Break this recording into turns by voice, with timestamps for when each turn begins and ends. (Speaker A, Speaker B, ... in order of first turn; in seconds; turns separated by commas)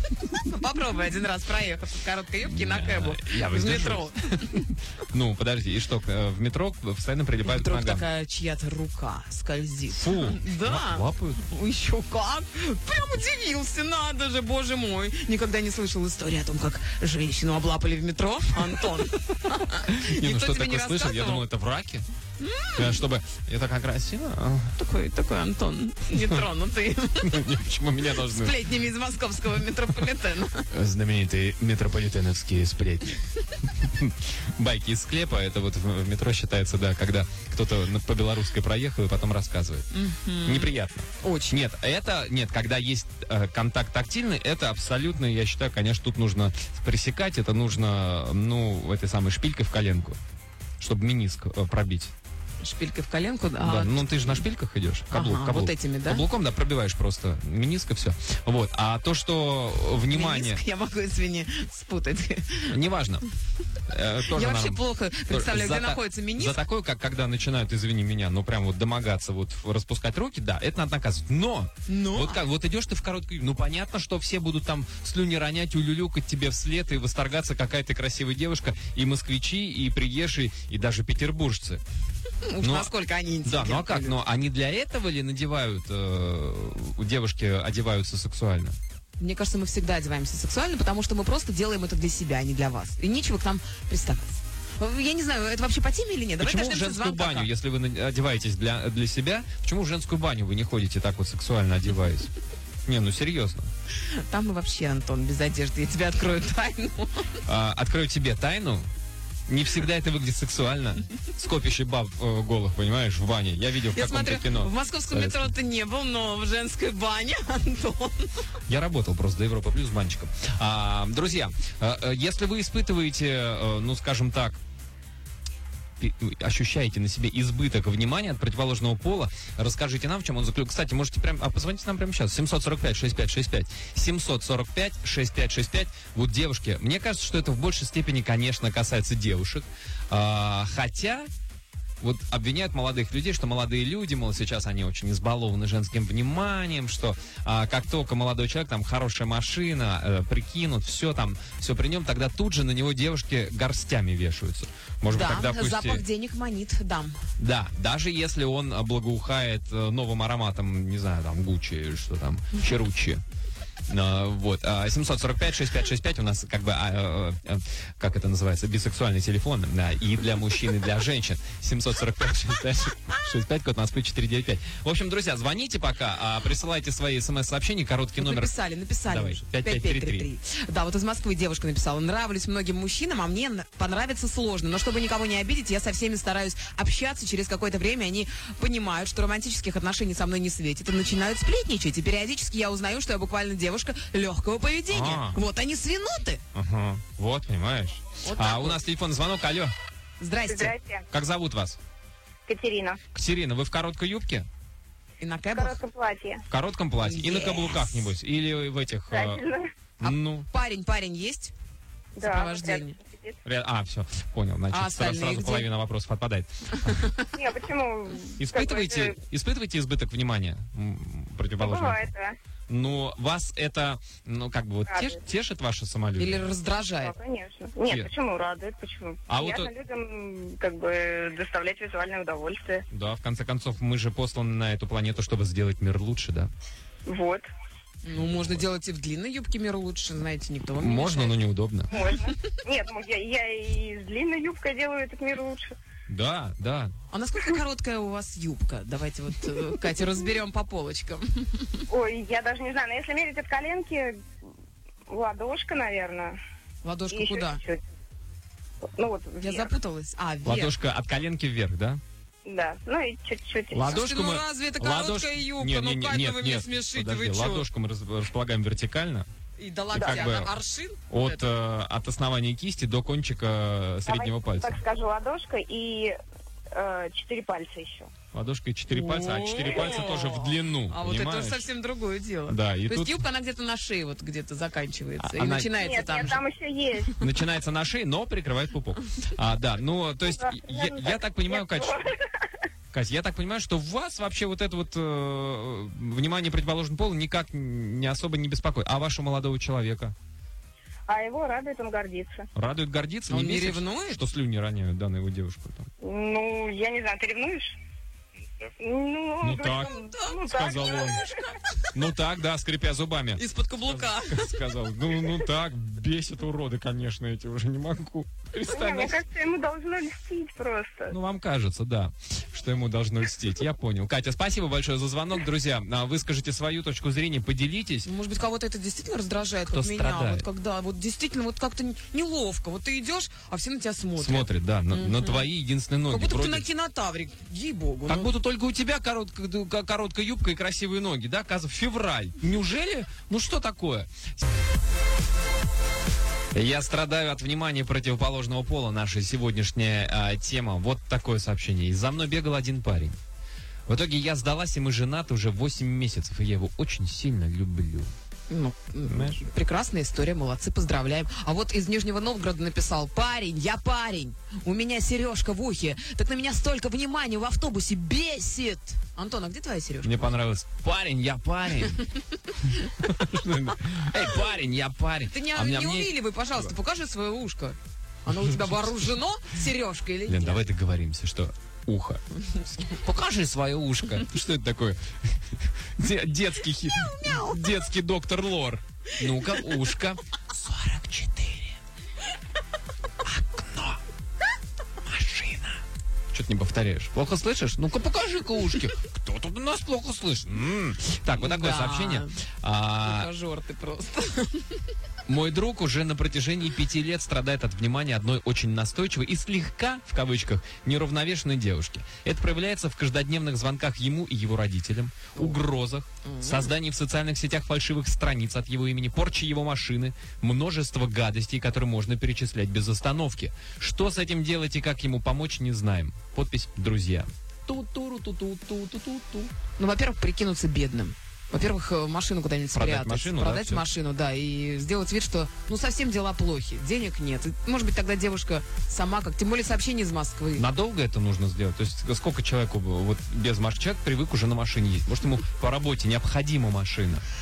Speaker A: 0.3-4.6, Speaker B: 2.4-8.0, Speaker A: 7.4-21.4, Speaker B: 9.9-11.4, Speaker B: 19.9-22.1, Speaker A: 22.4-23.0, Speaker B: 22.8-24.7, Speaker A: 24.8-27.4, Speaker B: 26.1-26.4, Speaker B: 27.2-28.6, Speaker A: 28.2-30.7, Speaker B: 30.7-39.9, Speaker A: 39.9-41.6, Speaker B: 40.4-50.2, Speaker B: 50.8-52.1, Speaker A: 52.6-54.4, Speaker B: 53.6-60.6, Speaker A: 55.1-56.2, Speaker A: 60.1-62.8, Speaker B: 62.7-63.3, Speaker B: 63.9-81.8, Speaker A: 64.3-66.6, Speaker A: 71.9-72.4, Speaker A: 82.5-84.2, Speaker B: 82.6-82.9, Speaker B: 83.4-88.8, Speaker A: 89.2-97.5, Speaker B: 96.4-102.3, Speaker B: 102.8-103.7, Speaker A: 104.0-107.3, Speaker B: 107.5-108.9, Speaker B: 109.5-115.5, Speaker A: 113.9-118.3, Speaker B: 118.7-124.6, Speaker B: 126.0-141.3, Speaker B: 142.0-156.0, Speaker A: 155.1-157.2, Speaker B: 157.4-163.2, Speaker B: 163.9-178.5, Speaker A: 178.2-196.4, Speaker B: 179.1-180.3, Speaker B: 194.9-195.4, Speaker B: 196.5-199.7, Speaker A: 198.2-198.8, Speaker A: 200.2-200.8, Speaker C: 200.5-201.0, Speaker B: 201.1-201.8, Speaker C: 202.5-203.0, Speaker B: 203.1-204.5, Speaker A: 205.2-205.8, Speaker C: 205.5-206.4, Speaker B: 206.5-209.4, Speaker A: 207.0-208.0, Speaker C: 209.1-209.7, Speaker B: 210.0-210.5, Speaker A: 210.0-211.5, Speaker C: 212.2-213.3, Speaker A: 212.2-213.0, Speaker B: 213.4-217.0, Speaker A: 214.7-215.7, Speaker A: 216.9-217.2, Speaker C: 217.3-219.1, Speaker B: 218.4-222.1, Speaker C: 221.6-222.3, Speaker B: 222.7-226.6, Speaker A: 226.2-227.1, Speaker C: 227.0-232.8, Speaker B: 227.8-228.1, Speaker B: 229.3-229.7, Speaker B: 232.9-236.5, Speaker C: 237.1-237.5, Speaker A: 238.0-241.4, Speaker B: 238.1-238.7, Speaker B: 240.8-241.9, Speaker C: 241.9-245.7, Speaker B: 246.1-246.9, Speaker A: 247.1-251.8, Speaker C: 251.9-254.1, Speaker C: 255.1-256.4, Speaker A: 256.8-257.6, Speaker C: 257.1-257.8, Speaker C: 258.8-259.7, Speaker A: 259.4-260.7, Speaker B: 260.4-262.0, Speaker C: 262.4-263.8, Speaker B: 263.7-269.3, Speaker A: 263.9-267.7, Speaker A: 269.6-271.4, Speaker B: 269.9-270.5, Speaker C: 269.9-270.3, Speaker B: 271.1-274.8, Speaker C: 274.1-276.1, Speaker C: 276.7-278.1, Speaker B: 278.3-281.7, Speaker A: 278.9-286.4, Speaker B: 282.5-283.2, Speaker B: 285.2-285.7, Speaker C: 285.8-287.1, Speaker B: 287.2-292.0, Speaker C: 290.4-292.0, Speaker B: 292.9-300.1, Speaker C: 301.1-302.5, Speaker B: 302.5-305.9, Speaker A: 303.3-304.2, Speaker C: 306.0-307.8, Speaker C: 308.8-311.2, Speaker B: 309.4-311.2, Speaker A: 309.6-311.2, Speaker B: 311.9-319.2, Speaker A: 313.4-314.6, Speaker C: 318.7-321.1, Speaker B: 321.1-328.1, Speaker A: 328.0-335.5, Speaker B: 329.6-330.4, Speaker B: 334.2-336.6, Speaker A: 336.1-338.3, Speaker B: 338.1-344.3, Speaker B: 346.5-353.2, Speaker B: 353.9-358.1, Speaker A: 358.5-370.2, Speaker B: 359.1-359.4, Speaker B: 370.0-372.0, Speaker B: 373.0-376.7, Speaker A: 375.3-380.6, Speaker B: 378.3-378.9, Speaker B: 380.3-391.8, Speaker B: 393.2-394.0, Speaker B: 395.0-403.3, Speaker A: 401.4-402.3, Speaker A: 403.0-404.8, Speaker B: 405.2-429.5, Speaker A: 416.2-416.7, Speaker A: 429.8-440.6, Speaker B: 432.7-433.8, Speaker B: 440.6-447.2